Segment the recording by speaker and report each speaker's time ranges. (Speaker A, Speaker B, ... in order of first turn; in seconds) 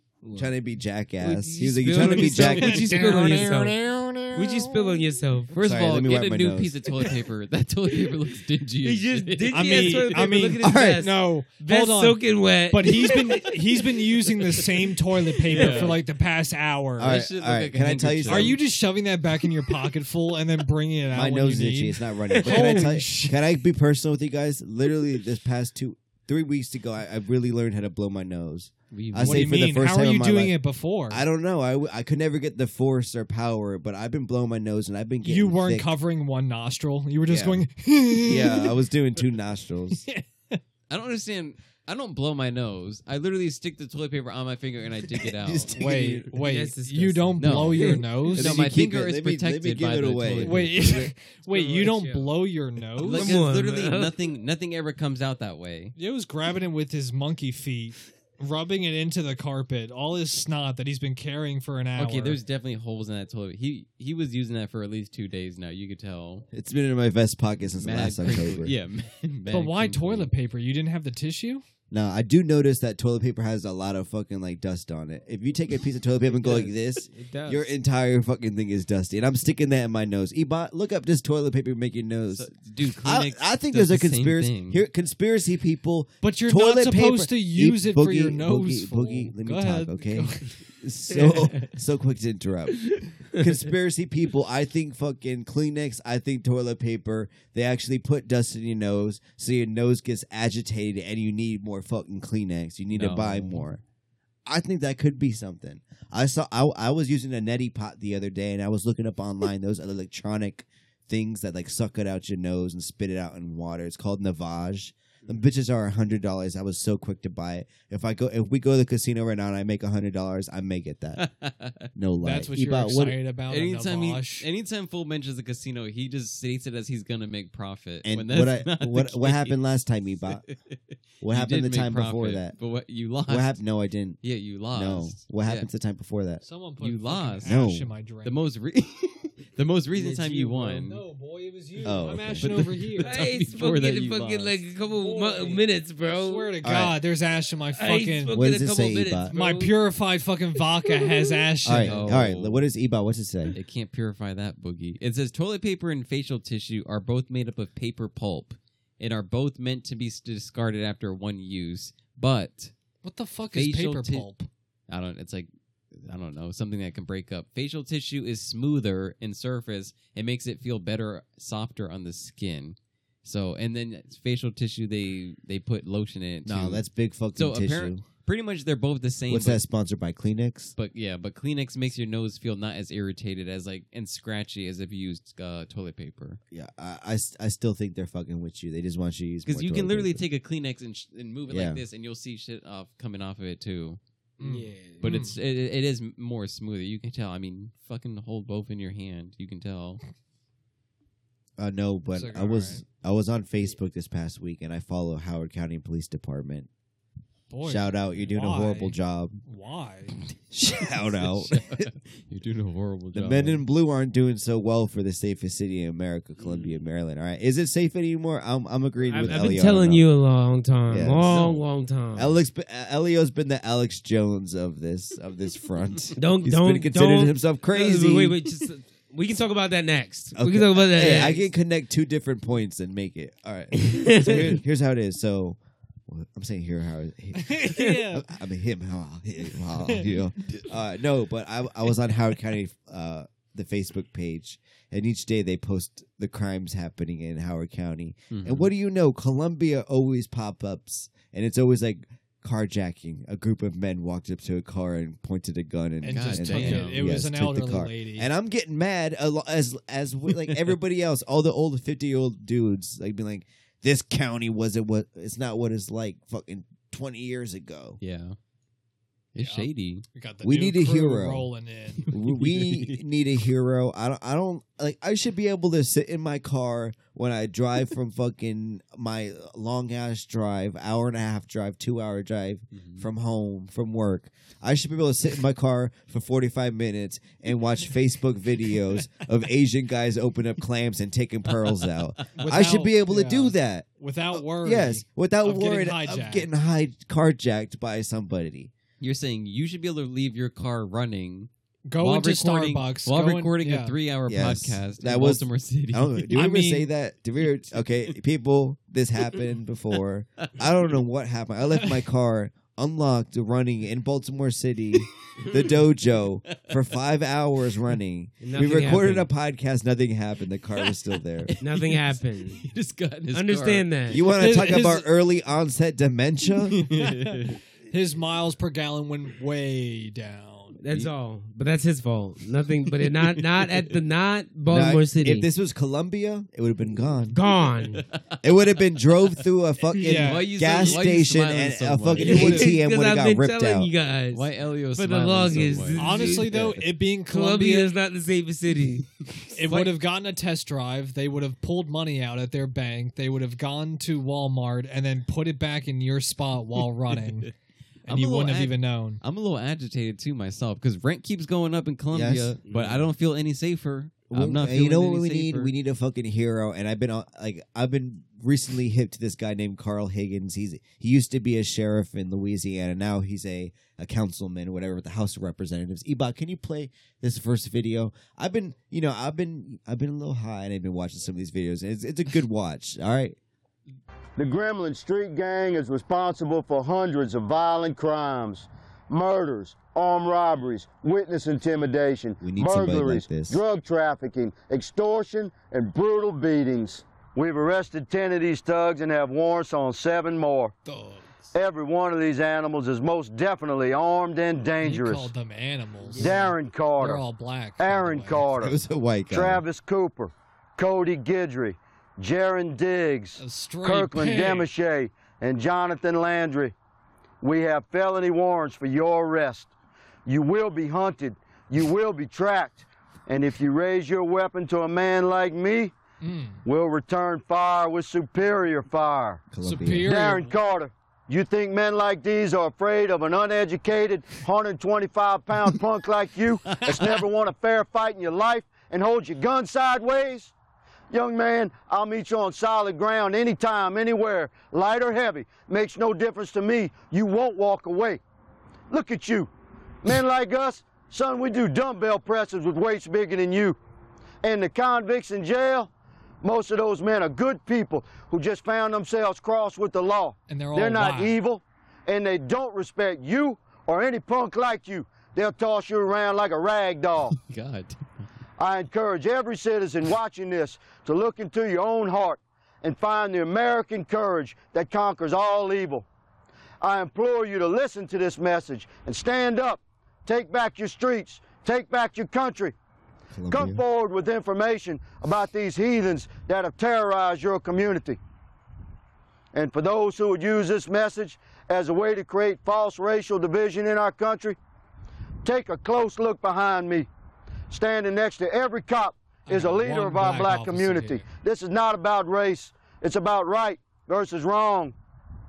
Speaker A: 0.2-0.5, 1.2-3.8, 4.3-5.5, 8.8-13.5, 15.6-15.9, 22.3-22.9, 46.4-48.0, 51.5-52.4, 53.0-54.1, 76.3-77.7, 91.1-91.6, 143.0-146.6, 147.7-149.8, 150.8-151.4, 194.4-195.0, 216.4-216.7, 219.1-222.3, 226.2-231.5, 233.8-234.6, 237.7-237.9, 318.4-319.3, 321.6-322.6, 323.3-324.2, 330.8-335.4, 337.3-338.0, 342.2-346.6, 347.3-349.2, 362.6-363.1, 406.1-406.4
Speaker B: 0.3-3.4, 5.6-6.7, 10.6-11.1, 17.0-18.6, 21.1-30.6, 31.1-35.9, 37.2-37.6, 38.2-40.0, 45.1-46.3, 48.4-51.1, 66.5-68.7, 71.9-82.5, 83.0-103.8, 104.5-121.2, 121.9-123.2, 128.0-130.4, 131.2-132.5, 133.3-136.4, 137.4-137.9, 141.8-142.5, 146.6-147.0, 148.3-149.3, 151.6-153.6, 176.4-178.0, 179.3-180.7, 186.5-190.2, 191.5-191.8, 201.6-206.7, 207.6-209.4, 210.5-211.8, 213.1-220.1, 220.9-221.6, 222.1-228.4, 230.4-268.0, 270.4-271.5, 272.1-298.7, 304.3-321.6, 324.1-326.8, 334.7-337.4, 338.4-343.9, 346.5-346.8, 362.1-362.5, 364.3-383.4, 392.4-393.6, 408.5-409.6, 429.5-430.1, 483.3-483.8
Speaker C: 2.0-5.0, 9.5-17.2, 18.2-23.4, 29.2-31.2, 35.2-38.7, 40.0-40.6, 45.7-48.5, 50.4-53.3, 56.0-62.4, 69.5-71.6, 86.2-90.6, 122.2-124.5, 136.4-138.3, 139.9-143.2, 145.0-148.4, 149.3-152.1, 163.0-164.5, 194.4-195.3, 202.1-202.8, 207.5-210.2, 237.4-238.2, 239.8-240.1, 256.0-258.3, 269.4-272.1, 292.4-296.5, 301.9-303.9, 306.3-306.9, 324.4-325.1, 326.9-330.8, 340.0-340.9, 342.3-342.7, 346.0-347.9, 349.5-357.5, 358.1-359.2, 400.9-401.5, 404.8-408.5, 413.4-414.7, 426.2-426.6, 429.6-430.5, 460.5-461.4, 499.5-501.2
Speaker D: 5.5-10.2, 15.5-16.0, 17.0-18.6, 28.9-29.6, 40.9-45.7, 47.4-51.0, 53.0-55.9, 62.0-66.5, 67.8-70.3, 82.3-84.8, 102.9-103.7, 121.2-121.9, 123.5-129.5, 130.3-130.8, 131.3-133.6, 134.2-135.7, 136.8-137.6, 138.2-141.0, 142.4-144.6, 151.8-152.6, 153.5-162.7, 163.5-164.2, 164.9-179.6, 180.8-186.4, 189.4-194.0, 195.0-200.0, 211.2-213.6, 248.3-248.7, 256.1-257.0, 268.0-268.4, 269.3-270.0, 272.3-273.0, 282.7-283.0, 291.5-291.9, 299.0-306.3, 321.5-323.9, 326.7-327.6, 333.2-333.9, 337.9-338.2, 340.0-342.6, 344.3-346.5, 358.1-365.7, 467.4-468.0
Speaker E: 384.4-400.7, 401.5-405.3, 406.1-407.2, 407.8-408.8, 409.3-416.7, 417.4-419.7, 420.2-425.9, 426.6-429.4, 430.0-440.5, 441.1-448.2, 448.9-449.5, 450.0-453.8, 454.4-455.9, 456.4-467.4, 468.6-476.1, 476.8-482.7, 483.5-488.2, 489.5-494.6, 495.4-497.1, 497.7-504.9